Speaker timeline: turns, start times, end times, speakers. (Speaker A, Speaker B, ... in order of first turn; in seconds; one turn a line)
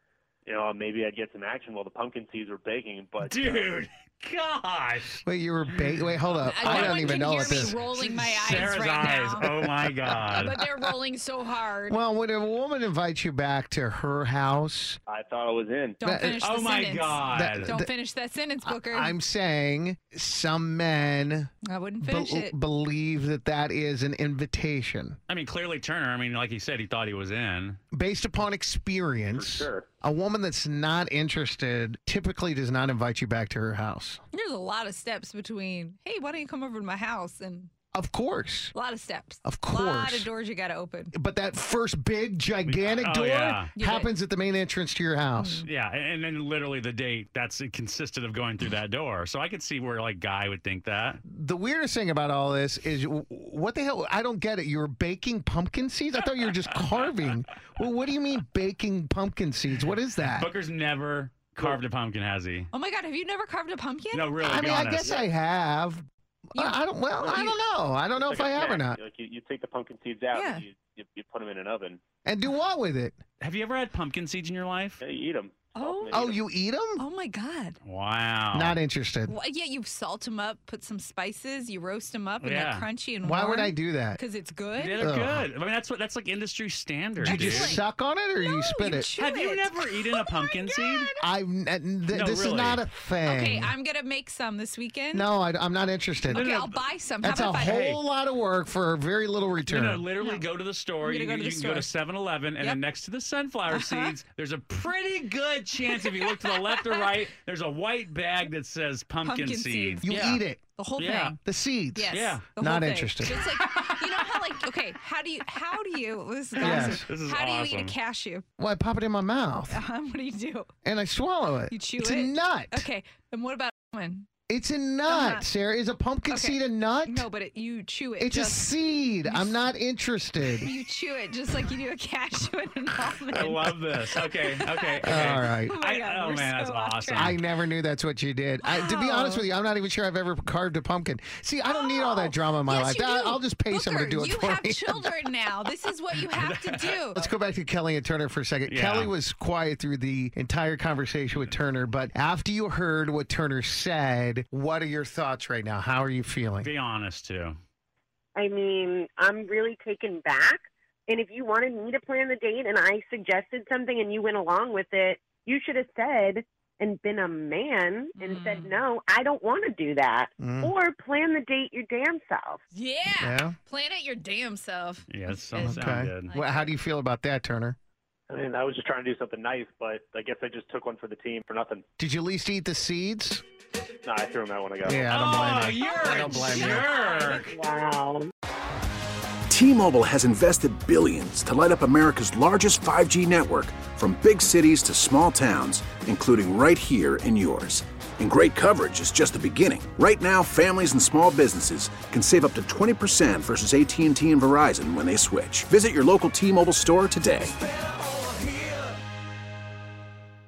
Speaker A: 0.5-3.8
Speaker B: 3.2-5.2
Speaker C: 5.2-7.8
Speaker B: 5.8-10.5
Speaker D: 6.4-9.7
Speaker D: 10.2-12.0
Speaker C: 10.3-10.8
Speaker C: 11.9-15.0
Speaker A: 15.1-16.0
Speaker D: 16.0-19.1
Speaker C: 16.0-16.4
Speaker B: 16.4-17.7
Speaker C: 17.3-17.9
Speaker C: 18.6-25.2
Speaker D: 21.7-22.5
Speaker B: 25.3-27.8
Speaker C: 27.9-34.2
Speaker A: 29.4-29.9
Speaker D: 34.3-37.7
Speaker C: 37.9-38.7
Speaker D: 38.7-41.1
Speaker C: 39.5-40.3
Speaker C: 41.1-45.6
Speaker B: 42.7-43.7
Speaker D: 43.8-44.1
Speaker D: 45.4-45.6
Speaker B: 45.6-51.2
Speaker C: 51.2-60.5
Speaker B: 60.3-62.7
Speaker D: 62.7-64.3
Speaker B: 64.1-65.3
Speaker C: 64.4-69.0
Speaker D: 66.5-67.6
Speaker A: 67.2-67.5
Speaker A: 68.1-72.0
Speaker D: 70.3-70.7
Speaker C: 72.2-73.2
Speaker B: 73.4-75.0
Speaker A: 75.0-76.4
Speaker D: 75.8-76.2
Speaker C: 76.1-77.1
Speaker D: 77.0-77.8
Speaker B: 77.8-78.8
Speaker C: 78.5-79.3
Speaker D: 79.3-85.1
Speaker B: 82.4-82.9
Speaker C: 83.2-84.2
Speaker B: 84.8-87.8
Speaker C: 85.0-85.5
Speaker D: 87.2-87.8
Speaker C: 87.2-89.1
Speaker D: 88.3-91.3
Speaker B: 89.2-91.1
Speaker C: 91.2-93.7
Speaker B: 92.1-92.8
Speaker D: 93.2-95.3
Speaker C: 95.1-96.5
Speaker D: 96.2-97.8
Speaker B: 96.3-96.8
Speaker C: 97.2-100.0
Speaker B: 97.7-98.0
Speaker B: 99.7-110.4
Speaker D: 101.0-101.9
Speaker D: 103.7-104.1
Speaker D: 105.9-107.1
Speaker D: 109.2-110.1
Speaker C: 110.0-110.6
Speaker D: 110.8-111.4
Speaker B: 111.0-111.3
Speaker C: 111.4-113.4
Speaker D: 112.0-118.5
Speaker B: 112.1-112.4
Speaker B: 113.6-113.9
Speaker B: 116.6-118.0
Speaker C: 116.6-117.0
Speaker C: 118.6-119.8
Speaker D: 119.7-120.7
Speaker C: 120.8-122.9
Speaker D: 121.7-124.3
Speaker C: 124.5-127.3
Speaker D: 125.1-125.5
Speaker D: 126.3-128.7
Speaker C: 128.2-130.7
Speaker D: 129.2-129.7
Speaker D: 130.6-137.4
Speaker B: 133.3-137.4
Speaker C: 135.0-135.8
Speaker C: 137.2-145.1
Speaker D: 138.6-139.5
Speaker D: 141.7-147.2
Speaker B: 146.1-147.0
Speaker C: 147.1-156.7
Speaker B: 148.7-149.1
Speaker B: 156.6-157.6
Speaker E: 158.3-172.6
Speaker D: 168.2-168.8
Speaker C: 170.4-170.7
Speaker D: 172.7-176.7
Speaker C: 173.2-173.6
Speaker B: 175.1-176.3
Speaker C: 175.6-177.8
Speaker A: 178.3-181.8
Speaker C: 182.0-183.4
Speaker A: 184.1-185.1
Speaker C: 184.8-186.9
Speaker B: 185.1-187.5
Speaker D: 185.8-187.4
Speaker E: 186.7-188.3
Speaker F: 189.5-207.5